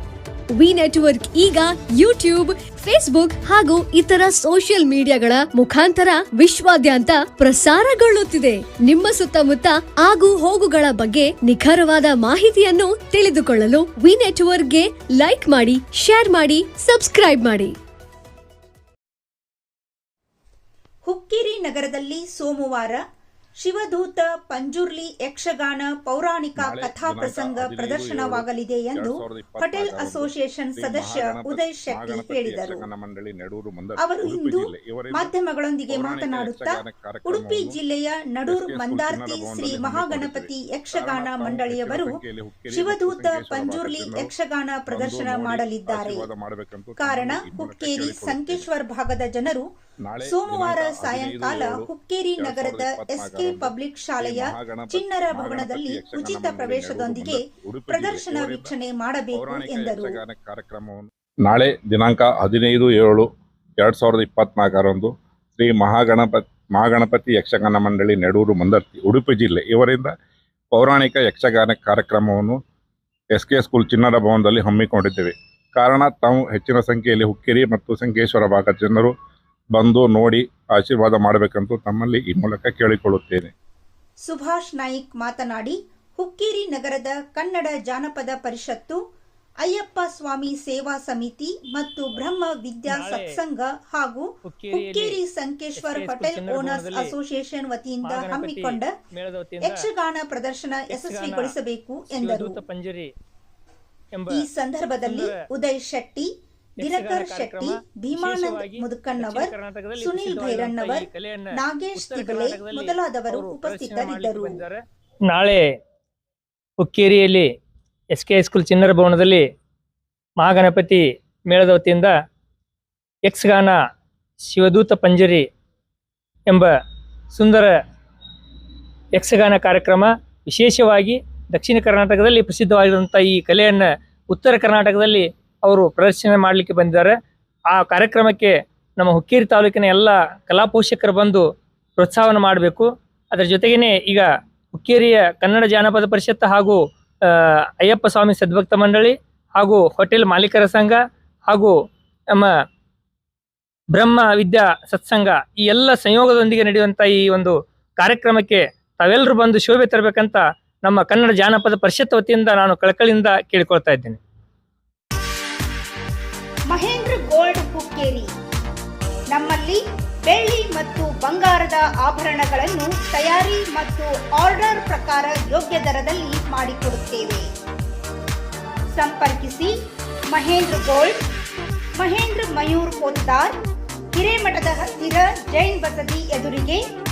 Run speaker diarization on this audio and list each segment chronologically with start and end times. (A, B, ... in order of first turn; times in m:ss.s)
0:00.6-0:17.8 A
0:21.0-0:23.0 B
0:23.6-0:32.9 B
0:26.6-0:35.4 C
0:34.0-0:46.3 B
0:35.9-0:37.8 C
0:38.5-0:44.3 C
0:44.9-0:48.7 C
0:47.0-0:49.6 B
0:50.0-0:58.7 C
0:50.2-1:00.2 B
0:59.3-1:03.3 C
1:03.8-1:10.1 C
1:10.7-1:12.6 C
1:13.3-1:19.1 C
1:19.7-1:23.5 C
1:24.2-1:29.0 B
1:29.6-1:38.9 B
1:32.9-1:33.4 D
1:34.5-1:35.2 D
1:35.8-1:37.1 D
1:38.0-1:39.8 D
1:39.6-1:42.6 B
1:40.9-1:41.5 D
1:42.1-1:43.1 D
1:44.3-1:46.3 B
1:45.1-1:45.3 D
1:46.8-1:54.6 B
1:46.8-1:54.8 D
1:55.3-1:55.7 D
1:56.8-1:57.5 D
1:58.1-1:59.5 D
2:00.4-2:02.1 D
2:03.3-2:03.8 D
2:04.5-2:05.5 D
2:06.5-2:06.7 D
2:07.3-2:07.8 D
2:09.2-2:17.1 D
2:17.7-2:21.4 D
2:22.0-2:31.8 D
2:33.9-2:44.2 D
2:46.7-2:48.3 B
2:49.3-2:57.5 B
2:58.9-2:59.7 B
3:00.3-3:01.2 B
3:02.0-3:03.5 B
3:04.1-3:06.8 B